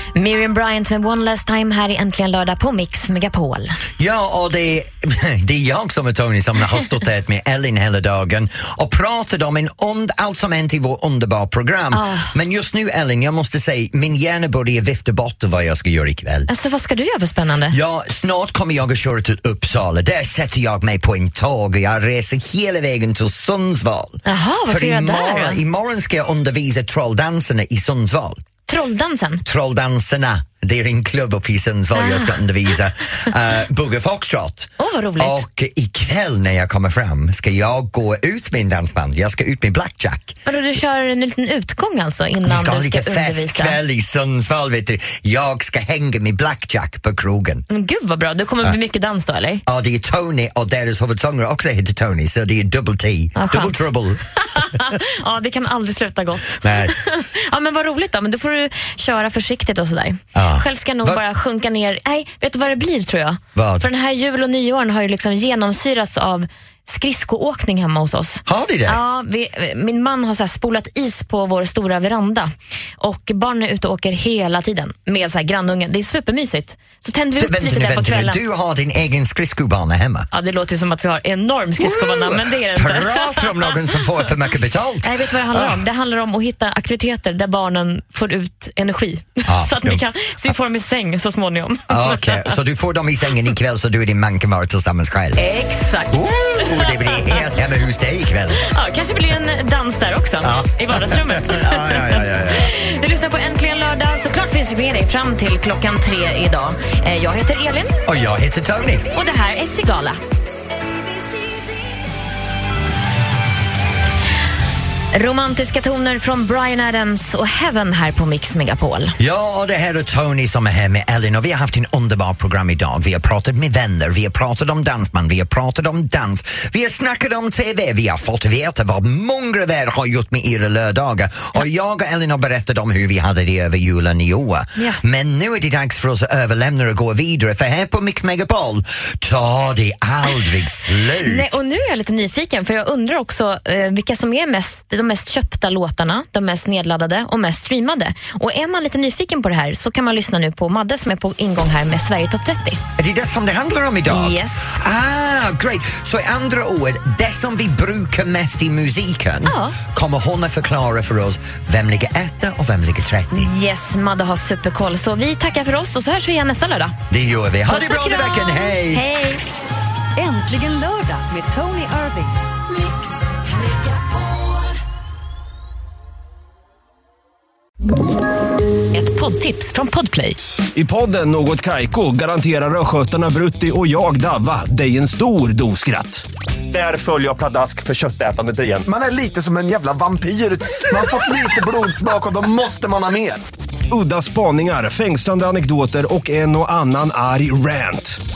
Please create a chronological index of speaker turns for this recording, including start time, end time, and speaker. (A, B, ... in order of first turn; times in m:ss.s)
0:00.2-0:03.8 A
0:04.0-0:16.5 B
0:11.9-0:12.3 A
0:16.5-0:17.8 A
0:17.7-0:28.4 B
0:24.3-0:25.6 A
0:28.7-0:29.4 A
0:29.4-0:40.4 B
0:32.0-0:32.4 A
0:34.8-0:35.4 A
0:40.5-0:43.8 A
0:42.4-0:47.6 B
0:47.7-0:49.6 A
0:49.7-0:54.8 B
0:53.4-0:53.8 A
0:54.4-1:18.4 A
0:56.6-0:56.9 B
1:00.4-1:01.2 B
1:03.6-1:03.9 B
1:08.5-1:09.0 B
1:17.4-1:20.3 B
1:20.3-1:23.8 A
1:21.8-1:25.8 B
1:25.0-1:32.5 A
1:29.5-1:30.0 B
1:31.9-1:35.5 B
1:35.4-1:37.3 A
1:36.1-1:38.7 B
1:38.6-1:48.0 A
1:40.4-1:42.7 B
1:48.1-1:49.1 B
1:49.1-1:50.2 A
1:55.1-1:59.2 A
1:59.2-2:21.6 B
2:21.2-2:32.8 A
2:33.0-2:43.5 B
2:34.1-2:34.8 A
2:39.4-2:39.8 A
2:43.3-2:47.0 A
2:47.1-2:49.0 B
2:47.7-2:49.4 A
2:50.2-2:52.4 C
2:58.9-3:00.4 A
3:00.8-3:08.8 D
3:08.8-3:13.4 E
3:13.9-3:18.2 D